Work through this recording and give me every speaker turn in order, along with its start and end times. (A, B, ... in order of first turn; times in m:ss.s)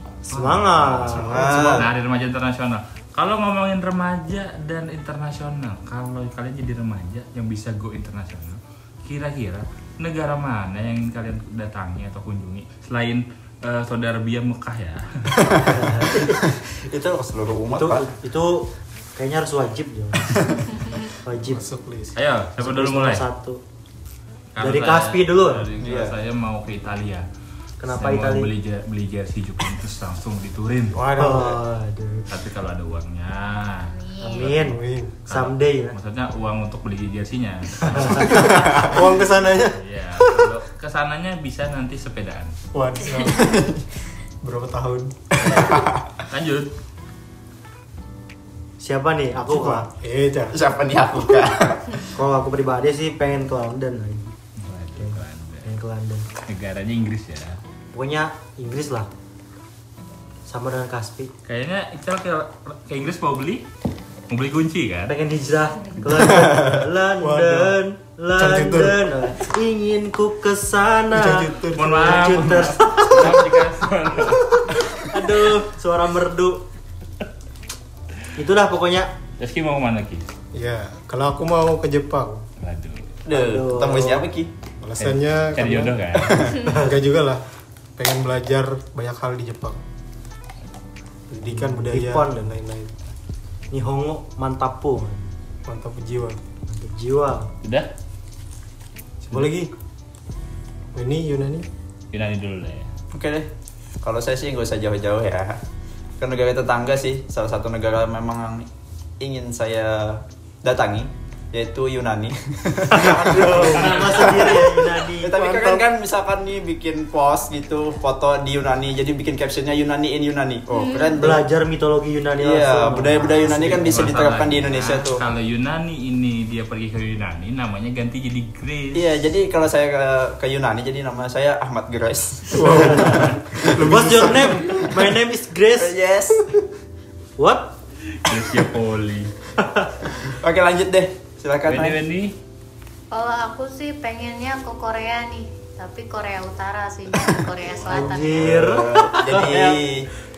0:00.3-0:01.8 A
0:00.3-0:15.5 B
0:01.1-0:01.6 C
0:01.1-0:01.9 D
0:15.4-0:18.1 D
0:15.6-0:16.3 A
0:17.7-0:20.6 A
0:21.2-0:21.7 A
0:21.4-0:22.1 C
0:22.1-0:23.2 B
0:22.6-0:23.6 A
0:24.5-0:27.3 B
0:24.6-0:25.7 A
0:25.8-0:26.1 D
0:27.8-0:28.5 A
0:27.9-0:31.0 B
0:30.9-0:31.6 C
0:31.2-0:32.3 A
0:32.3-0:34.5 B
0:33.8-0:34.5 E
0:34.2-0:35.9 A
0:34.5-0:35.1 C
0:35.2-0:38.9 B
0:37.8-0:39.2 A
0:38.3-0:39.8 C
0:39.7-0:42.6 B
0:42.7-0:43.8 C
0:44.4-0:45.8 C
0:45.5-0:46.0 D
0:46.3-0:46.7 B
0:48.8-0:49.9 A
0:49.3-0:50.6 C
0:50.5-0:52.0 D
0:52.1-0:54.3 A
0:54.6-0:55.7 B
0:55.0-0:56.3 A
0:56.5-0:57.6 B
0:57.9-0:59.1 A
1:00.4-1:01.3 A
1:01.4-1:03.6 B
1:04.3-1:05.1 B
1:05.1-1:13.6 A
1:06.2-1:07.8 C
1:08.3-1:09.3 C
1:11.1-1:13.3 C
1:11.7-1:14.6 B
1:14.3-1:16.6 A
1:18.4-1:19.1 A
1:19.4-1:20.3 B
1:20.5-1:22.4 C
1:22.6-1:23.2 B
1:23.2-1:24.5 D
1:23.3-1:24.3 A
1:24.8-1:26.0 C
1:25.0-1:26.5 B
1:26.2-1:26.6 D
1:26.6-1:27.4 C
1:28.0-1:29.8 C
1:31.3-1:32.9 C
1:31.4-1:32.4 A
1:33.7-1:35.3 A
1:35.6-1:36.4 C
1:36.7-1:37.5 A
1:37.6-1:37.9 B
1:39.2-1:39.7 C
1:40.9-1:41.7 C
1:42.1-1:42.9 B
1:43.1-1:43.5 D
1:44.0-1:45.6 D
1:46.2-1:48.7 D
1:49.2-2:01.4 D
1:52.9-1:55.4 A
1:53.4-1:54.1 C
1:55.3-1:55.8 C
2:00.7-2:01.3 E
2:01.2-2:04.0 A
2:02.4-2:05.2 D
2:03.8-2:09.0 B
2:08.9-2:13.9 D
2:12.5-2:14.8 C
2:12.7-2:16.0 A
2:15.8-2:16.5 D
2:17.4-2:17.7 A
2:18.1-2:19.3 B
2:19.6-2:20.0 A
2:20.2-2:22.0 D
2:21.6-2:22.3 B
2:23.1-2:28.8 E
2:27.8-2:30.1 D
2:27.8-2:29.8 A